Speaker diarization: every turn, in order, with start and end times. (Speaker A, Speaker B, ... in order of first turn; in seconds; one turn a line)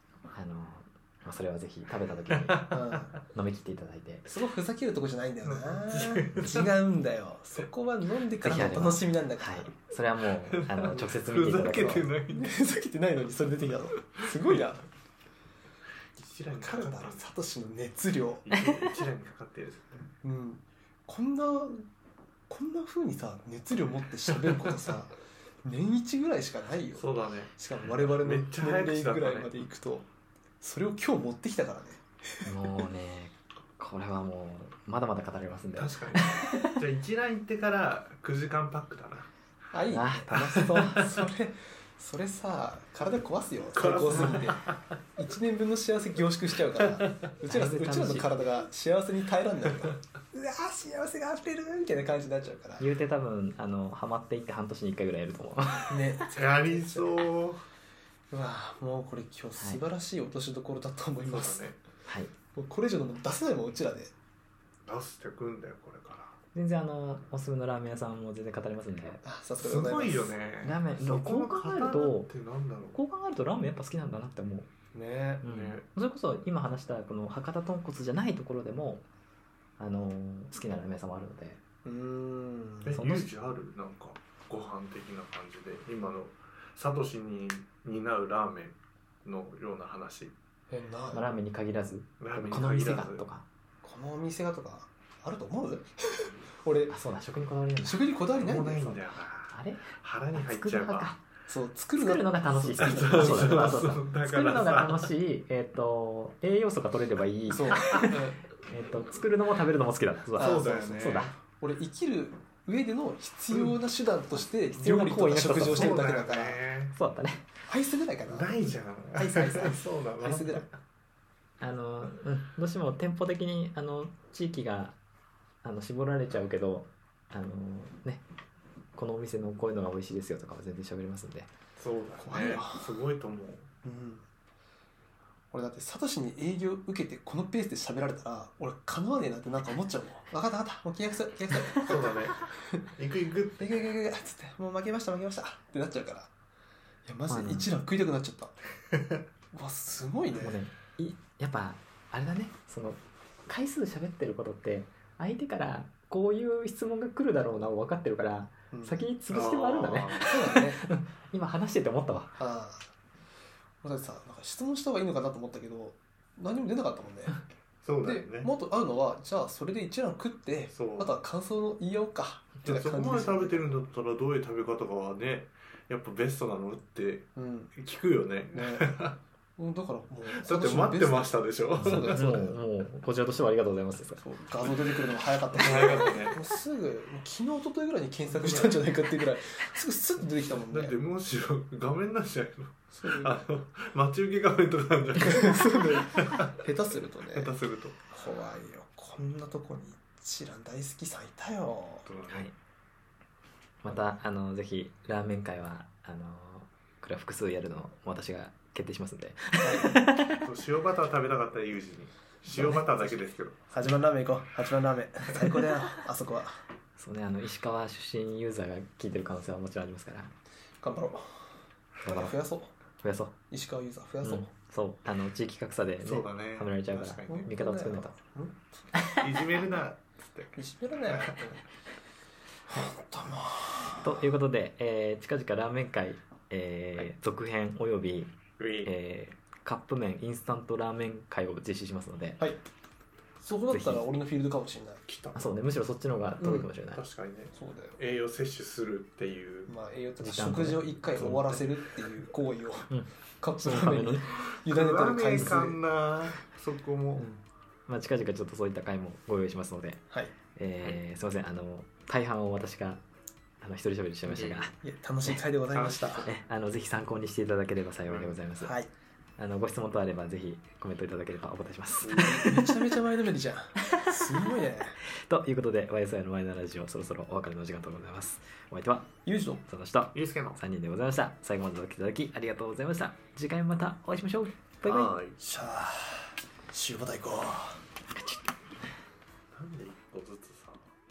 Speaker A: 0.3-2.8
Speaker B: 2.3-3.1
Speaker C: 2.7-3.1
Speaker A: 3.3-4.3
Speaker C: 4.3-9.7
Speaker B: 5.4-6.7
Speaker A: 8.4-12.1
Speaker B: 10.5-12.6
Speaker C: 12.3-14.9
Speaker B: 14.2-14.6
Speaker B: 16.2-17.3
Speaker C: 16.5-18.5
Speaker B: 18.4-20.1
Speaker A: 18.5-18.9
Speaker C: 20.2-21.9
Speaker C: 22.5-30.1
Speaker B: 26.9-29.7
Speaker C: 30.6-32.5
Speaker A: 32.5-36.8
Speaker B: 35.7-39.3
Speaker C: 39.7-52.9
Speaker A: 39.9-41.1
Speaker B: 40.3-41.3
Speaker B: 43.7-44.8
Speaker A: 44.1-44.6
Speaker A: 47.4-48.5
Speaker A: 52.8-56.2
Speaker C: 55.9-57.1
Speaker B: 56.3-57.6
Speaker C: 58.3-61.7
Speaker B: 61.2-61.8
Speaker A: 62.1-62.3
Speaker C: 62.5-64.1
Speaker B: 64.9-66.3
Speaker A: 66.5-69.2
Speaker C: 69.2-70.4
Speaker B: 69.6-73.0
Speaker A: 70.6-72.3
Speaker A: 72.9-74.7
Speaker C: 74.9-75.4
Speaker B: 75.4-75.8
Speaker A: 75.4-79.0
Speaker A: 79.8-81.6
Speaker C: 81.8-83.0
Speaker B: 82.8-90.3
Speaker A: 82.9-83.3
Speaker C: 90.7-91.2
Speaker A: 91.1-93.5
Speaker B: 92.2-93.2
Speaker C: 93.8-97.0
Speaker A: 96.9-98.1
Speaker C: 97.8-99.0
Speaker B: 98.3-101.2
Speaker A: 99.5-101.2
Speaker C: 101.5-103.9
Speaker A: 102.0-111.3
Speaker B: 102.8-105.1
Speaker C: 107.5-108.4
Speaker C: 110.4-116.6
Speaker B: 110.4-111.3
Speaker A: 114.7-116.0
Speaker B: 115.4-117.0
Speaker A: 116.9-117.5
Speaker C: 117.7-120.7
Speaker B: 118.3-120.7
Speaker A: 121.6-125.0
Speaker A: 125.6-128.2
Speaker A: 129.0-131.5
Speaker B: 131.8-133.7
Speaker C: 132.2-133.0
Speaker C: 133.8-134.3
Speaker C: 135.5-142.8
Speaker B: 141.8-143.9
Speaker C: 143.6-146.3
Speaker C: 147.1-148.6
Speaker A: 147.3-147.7
Speaker C: 149.5-150.6
Speaker A: 150.3-162.4
Speaker C: 158.7-159.0
Speaker B: 159.3-160.5
Speaker C: 160.2-160.8
Speaker C: 162.4-162.9
Speaker C: 163.8-167.3
Speaker B: 167.8-168.5
Speaker C: 168.0-173.8
Speaker B: 170.7-171.2
Speaker B: 172.6-179.2
Speaker C: 177.4-177.7
Speaker C: 178.5-178.9
Speaker C: 179.6-182.6
Speaker B: 180.3-182.3
Speaker A: 181.9-184.2
Speaker C: 184.2-190.9
Speaker B: 184.7-185.0
Speaker B: 185.5-186.4
Speaker B: 190.7-196.6
Speaker C: 192.9-193.4
Speaker C: 195.2-197.6
Speaker B: 197.3-198.0
Speaker C: 198.1-202.1
Speaker B: 202.1-202.5
Speaker A: 202.3-202.5
Speaker A: 203.8-210.4
Speaker C: 209.6-210.0
Speaker B: 210.3-213.7
Speaker A: 212.5-212.8
Speaker C: 212.6-216.6
Speaker A: 217.0-220.3
Speaker C: 220.8-222.8
Speaker A: 222.0-222.3
Speaker A: 223.0-223.3
Speaker C: 223.5-224.5
Speaker A: 224.2-228.2
Speaker B: 226.0-227.5
Speaker C: 227.3-228.8
Speaker A: 228.9-229.2
Speaker B: 229.1-231.6
Speaker C: 230.6-231.6
Speaker C: 232.7-234.3
Speaker A: 234.0-242.4
Speaker B: 238.6-238.9
Speaker C: 243.4-245.1
Speaker A: 243.7-244.1
Speaker B: 245.1-245.4
Speaker A: 245.3-247.0
Speaker C: 246.4-246.7
Speaker B: 246.9-249.7
Speaker C: 247.5-248.0
Speaker C: 249.7-255.8
Speaker A: 250.2-251.5
Speaker B: 251.2-251.7
Speaker A: 253.6-254.3
Speaker B: 254.4-257.3
Speaker A: 255.4-255.7
Speaker A: 257.2-263.0
Speaker A: 263.6-265.4
Speaker B: 264.3-264.7
Speaker C: 264.8-266.3
Speaker B: 265.7-266.3
Speaker A: 266.2-268.7
Speaker B: 268.1-268.4
Speaker C: 268.6-268.9
Speaker A: 269.4-272.8
Speaker B: 272.0-272.4
Speaker C: 272.1-275.0
Speaker A: 273.8-274.4
Speaker A: 275.0-285.2
Speaker C: 279.2-279.6
Speaker B: 280.1-280.6
Speaker B: 284.9-285.4
Speaker C: 285.4-287.8
Speaker A: 288.1-288.4
Speaker B: 289.5-290.8